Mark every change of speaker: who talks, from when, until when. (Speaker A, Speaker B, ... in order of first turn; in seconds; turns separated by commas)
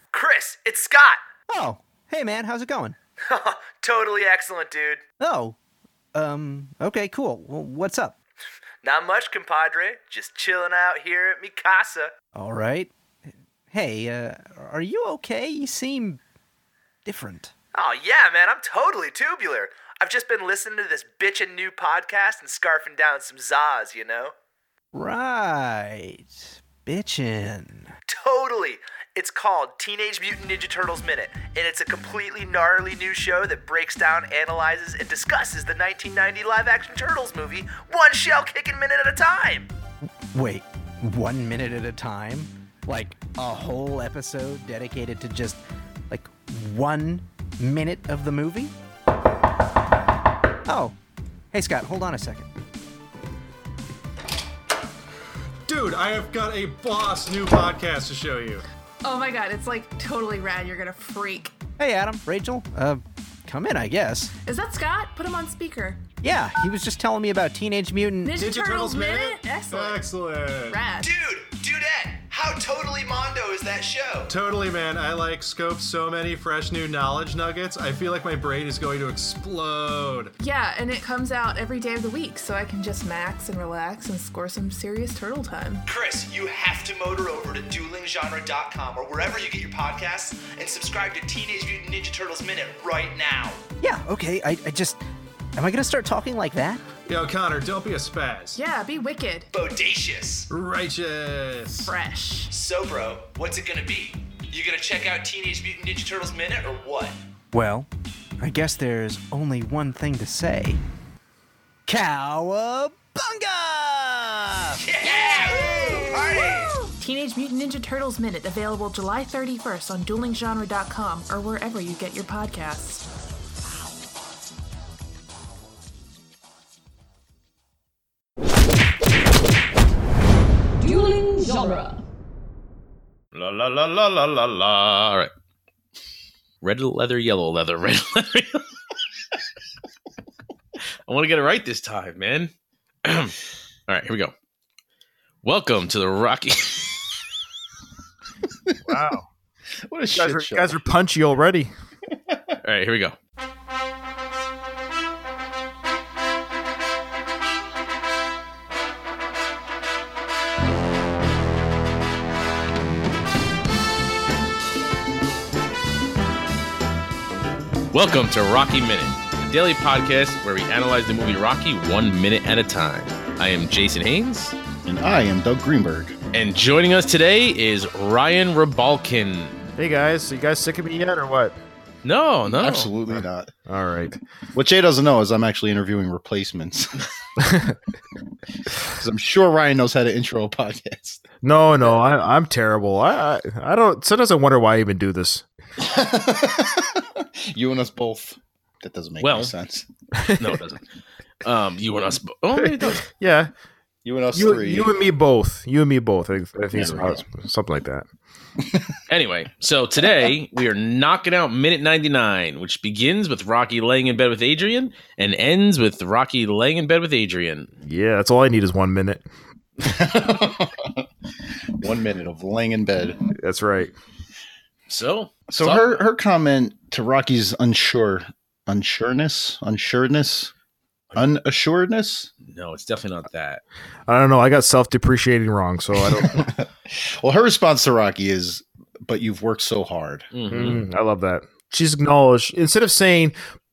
Speaker A: 0.1-1.2, Speaker B: 1.5-3.0, Speaker A: 3.3-5.0, Speaker B: 5.2-5.6, Speaker B: 6.1-8.2, Speaker A: 8.8-12.1, Speaker B: 12.3-12.9, Speaker B: 13.7-16.2, Speaker B: 17.1-17.5, Speaker A: 17.8-24.3, Speaker B: 24.9-27.9, Speaker A: 28.1-39.7, Speaker B: 40.3-48.7, Speaker B: 50.7-51.0, Speaker B: 51.5-52.5, Speaker C: 55.7-58.6, Speaker D: 59.0-61.5, Speaker B: 61.8-64.3, Speaker D: 64.4-66.0, Speaker B: 66.2-68.4, Speaker D: 68.2-70.0, Speaker C: 68.4-70.9, Speaker D: 70.7-71.1, Speaker A: 71.0-74.3, Speaker C: 74.3-80.3, Speaker D: 80.4-85.8, Speaker A: 85.9-93.6, Speaker B: 93.8-95.0, Speaker B: 95.6-96.8, Speaker C: 97.1-98.6, Speaker D: 98.6-99.5, Speaker A: 99.5-100.5, Speaker C: 100.5-101.9, Speaker D: 101.9-102.5, Speaker A: 102.5-107.2, Speaker B: 107.5-107.9, Speaker B: 108.4-110.8, Speaker B: 111.9-114.8, Speaker A: 114.8-116.8, Speaker B: 115.8-116.1, Speaker D: 116.9-123.0, Speaker E: 133.3-135.3, Speaker E: 136.6-138.7, Speaker E: 141.1-142.5, Speaker E: 143.0-143.4, Speaker E: 143.9-144.3, Speaker E: 145.4-147.1, Speaker F: 148.8-149.3, Speaker G: 149.9-150.8, Speaker F: 150.1-151.7, Speaker G: 152.1-152.5, Speaker E: 152.6-153.2, Speaker E: 167.9-174.6, Speaker G: 174.8-176.2, Speaker E: 176.3-179.6, Speaker F: 179.8-181.6, Speaker E: 182.0-182.9, Speaker G: 182.5-183.5, Speaker F: 183.7-184.2, Speaker G: 184.5-187.1, Speaker F: 187.4-187.8, Speaker G: 188.8-191.2, Speaker F: 191.4-195.4, Speaker G: 195.8-199.9, Speaker E: 199.2-199.5, Speaker E: 200.4-200.8, Speaker E: 201.4-203.1, Speaker F: 202.6-203.5, Speaker G: 204.1-204.9, Speaker F: 204.3-208.1, Speaker G: 206.7-207.2, Speaker G: 208.6-209.0, Speaker E: 209.1-217.7, Speaker F: 217.8-219.2, Speaker G: 219.8-221.1, Speaker G: 221.8-223.2, Speaker F: 223.4-223.9, Speaker E: 224.9-226.0, Speaker G: 225.5-230.5, Speaker G: 231.2-232.3, Speaker E: 232.4-233.6, Speaker F: 234.1-236.5, Speaker G: 236.1-240.3, Speaker E: 240.3-240.8, Speaker F: 240.5-243.3